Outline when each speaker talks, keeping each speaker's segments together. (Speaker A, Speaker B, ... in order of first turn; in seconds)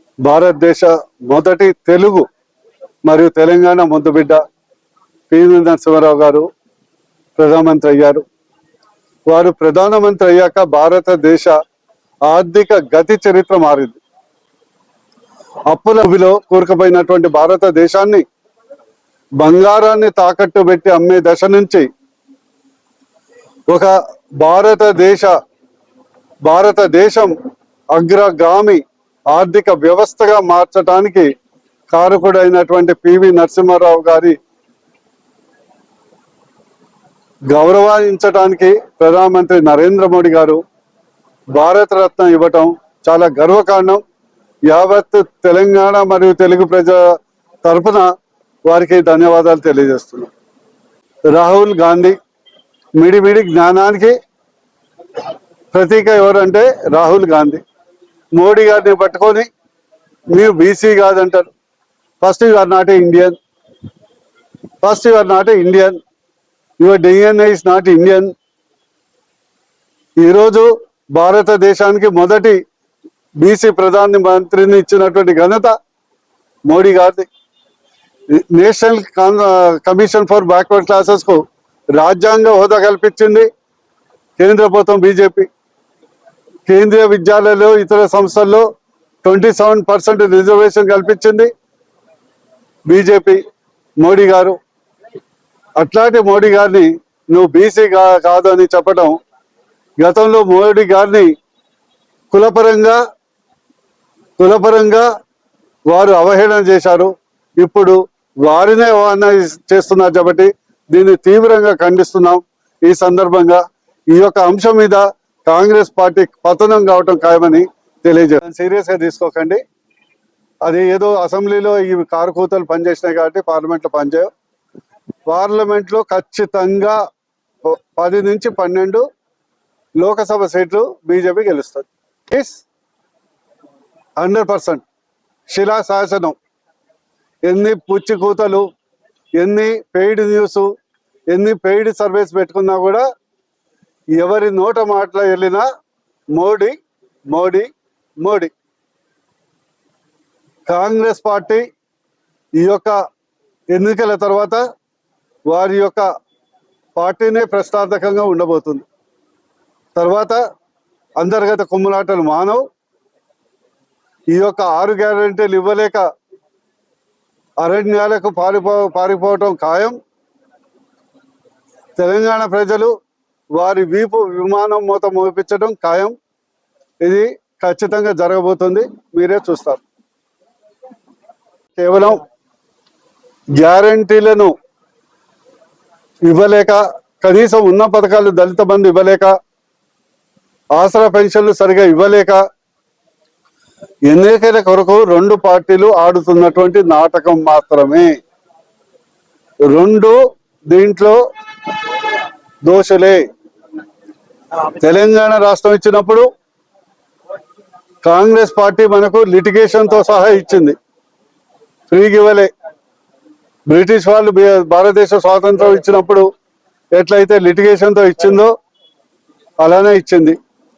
Speaker A: 0.2-2.2, 3.1-4.4, 5.3-6.5, 7.4-8.2, 9.3-11.6, 12.3-14.0, 15.7-18.2, 19.4-21.9, 23.7-25.3, 26.5-27.3, 27.9-31.3, 31.9-34.4, 37.5-40.6, 41.5-44.0, 44.7-47.0, 47.6-48.1, 48.7-50.3, 51.3-52.2, 53.0-54.1, 55.7-57.6, 58.4-59.5, 60.3-61.5, 62.2-63.4, 64.8-66.0, 66.8-68.3, 70.2-72.6, 73.4-75.7, 76.7-77.3, 78.3-81.4, 82.0-83.5, 84.4-85.5, 86.7-88.7, 89.2-91.5, 92.9-93.4, 94.0-94.6, 95.8-99.2, 100.0-101.3, 102.3-103.0, 104.4-105.1, 105.9-113.6, 114.1-119.6, 120.6-124.3, 125.3-127.0, 127.6-129.1, 130.0-132.6, 134.2-134.8, 135.5-136.4, 137.5-138.7, 139.4-140.7, 141.3-143.0, 144.2-145.7, 146.3-146.8, 147.3-147.7, 148.2-148.5, 150.7-151.6, 152.6-153.0, 153.7-154.6, 155.5-156.1, 157.0-158.8, 160.0-160.4, 161.2-162.6, 164.3-166.1, 167.6-170.0, 172.0-172.9, 173.5-176.2, 177.0-179.8, 181.8-182.2, 183.6-184.5, 186.3-189.3, 190.8-192.4, 194.1-198.2, 199.7-200.2, 200.7-201.2, 202.6-203.2, 204.7-206.3, 208.0-210.8, 211.9-212.5, 213.7-216.3, 217.0-218.5, 219.6-220.4